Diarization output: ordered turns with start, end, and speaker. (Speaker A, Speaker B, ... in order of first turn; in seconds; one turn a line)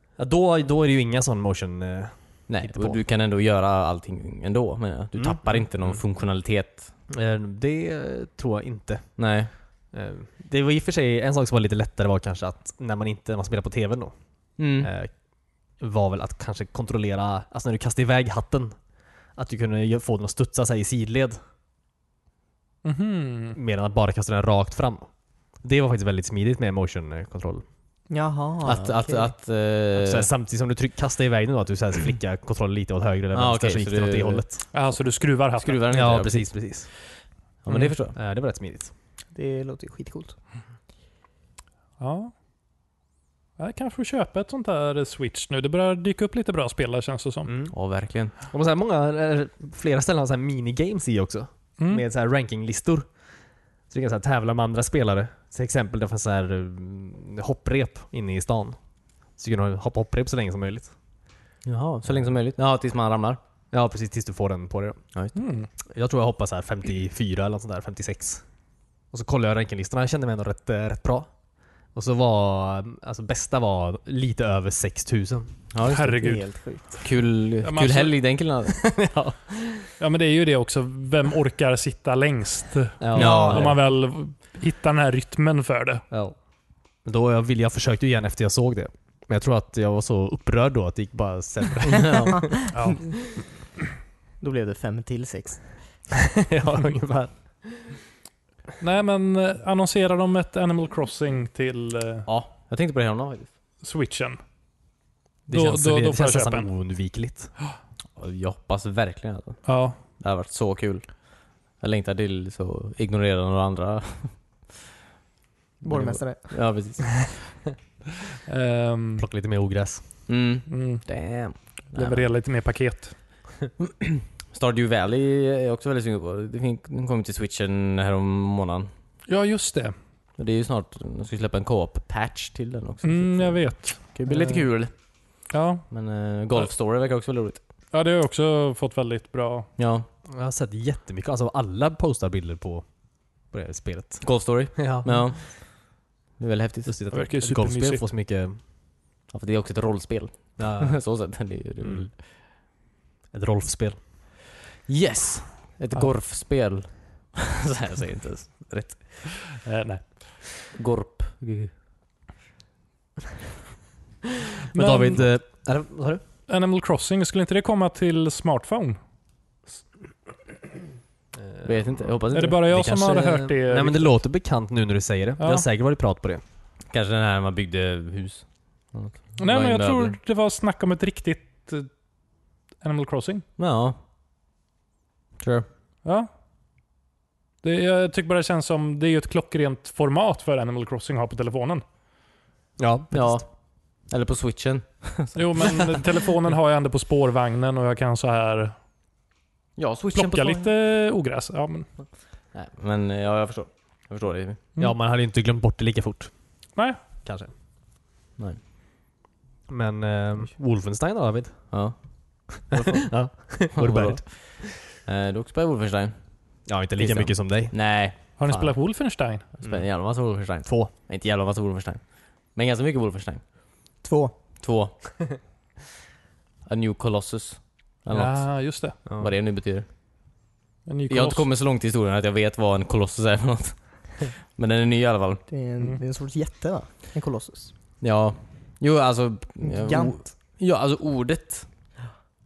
Speaker A: 0.2-3.0
Speaker B: 2.5-6.9
Speaker A: 5.2-6.0
Speaker A: 7.1-18.8
Speaker B: 9.2-9.5
Speaker B: 14.6-14.9
Speaker A: 19.3-21.4
Speaker C: 22.8-23.6
Speaker A: 23.5-27.6
Speaker D: 28.1-29.3
Speaker B: 28.6-30.3
Speaker A: 29.9-34.6
Speaker B: 33.3-34.7
Speaker C: 34.7-35.8
Speaker B: 35.5-37.0
Speaker A: 35.9-36.9
Speaker B: 37.6-38.1
Speaker A: 37.7-38.9
Speaker D: 39.3-40.4
Speaker C: 42.0-42.3
Speaker C: 43.6-47.5
Speaker A: 47.4-58.8
Speaker B: 47.7-48.3
Speaker A: 59.3-60.9
Speaker B: 61.6-63.4
Speaker A: 63.7-65.0
Speaker C: 65.3-65.7
Speaker A: 65.9-68.4
Speaker A: 69.1-71.3
Speaker A: 71.9-75.6
Speaker B: 75.7-76.4
Speaker C: 75.8-76.6
Speaker D: 76.2-76.9
Speaker B: 77.0-78.9
Speaker C: 77.6-78.2
Speaker A: 78.7-79.9
Speaker C: 80.0-86.0
Speaker A: 83.0-83.8
Speaker B: 83.1-83.7
Speaker D: 83.2-83.7
Speaker A: 86.1-86.4
Speaker A: 87.0-92.5
Speaker B: 92.0-92.5
Speaker C: 92.7-93.1
Speaker D: 94.4-95.8
Speaker A: 96.5-97.9
Speaker C: 98.8-102.3
Speaker B: 102.2-103.5
Speaker C: 103.8-104.4
Speaker A: 105.5-107.5
Speaker C: 105.5-106.7
Speaker B: 108.2-114.5
Speaker C: 109.6-110.0
Speaker B: 115.8-117.5
Speaker D: 115.8-116.6
Speaker C: 118.5-119.2
Speaker A: 119.2-120.2
Speaker B: 120.3-122.3
Speaker C: 120.7-121.0
Speaker C: 121.9-123.2
Speaker B: 123.8-128.9
Speaker C: 129.3-129.9
Speaker B: 130.4-134.9
Speaker C: 133.0-134.7
Speaker C: 135.5-135.9
Speaker B: 135.9-137.6
Speaker C: 137.9-139.7
Speaker B: 139.8-140.1
Speaker A: 140.3-142.9
Speaker A: 143.4-145.3
Speaker B: 144.2-147.0
Speaker A: 146.9-148.6
Speaker C: 147.1-148.0
Speaker B: 149.3-152.1
Speaker A: 150.6-151.0
Speaker A: 151.8-152.1
Speaker A: 153.3-154.0
Speaker B: 154.9-159.4
Speaker C: 159.6-160.1
Speaker B: 160.7-161.7
Speaker C: 164.7-165.2
Speaker A: 164.7-166.2
Speaker C: 166.5-169.0
Speaker A: 171.4-172.0
Speaker B: 171.6-172.6
Speaker C: 172.3-174.2
Speaker A: 172.6-176.4
Speaker C: 175.4-175.7
Speaker B: 176.9-180.2
Speaker C: 179.4-181.9
Speaker C: 182.8-183.4
Speaker B: 183.6-184.0
Speaker B: 185.4-185.7
Speaker C: 187.6-191.8
Speaker A: 192.8-193.4
Speaker B: 193.1-195.9
Speaker C: 195.3-198.7
Speaker B: 199.8-200.7
Speaker C: 200.1-201.9
Speaker B: 202.5-204.6
Speaker A: 204.8-206.3
Speaker A: 207.2-207.5
Speaker A: 209.7-212.0
Speaker B: 211.7-216.2
Speaker A: 212.7-214.8
Speaker A: 216.7-217.8
Speaker B: 216.9-218.7
Speaker C: 218.4-219.4
Speaker B: 219.5-223.4
Speaker A: 219.6-220.0
Speaker A: 220.6-220.9
Speaker D: 224.0-224.3
Speaker B: 224.6-225.4
Speaker B: 226.7-229.8
Speaker C: 228.1-229.0
Speaker A: 229.0-229.3
Speaker C: 230.8-231.5
Speaker B: 231.1-235.4
Speaker D: 235.5-237.7
Speaker B: 238.0-241.7
Speaker D: 239.6-240.3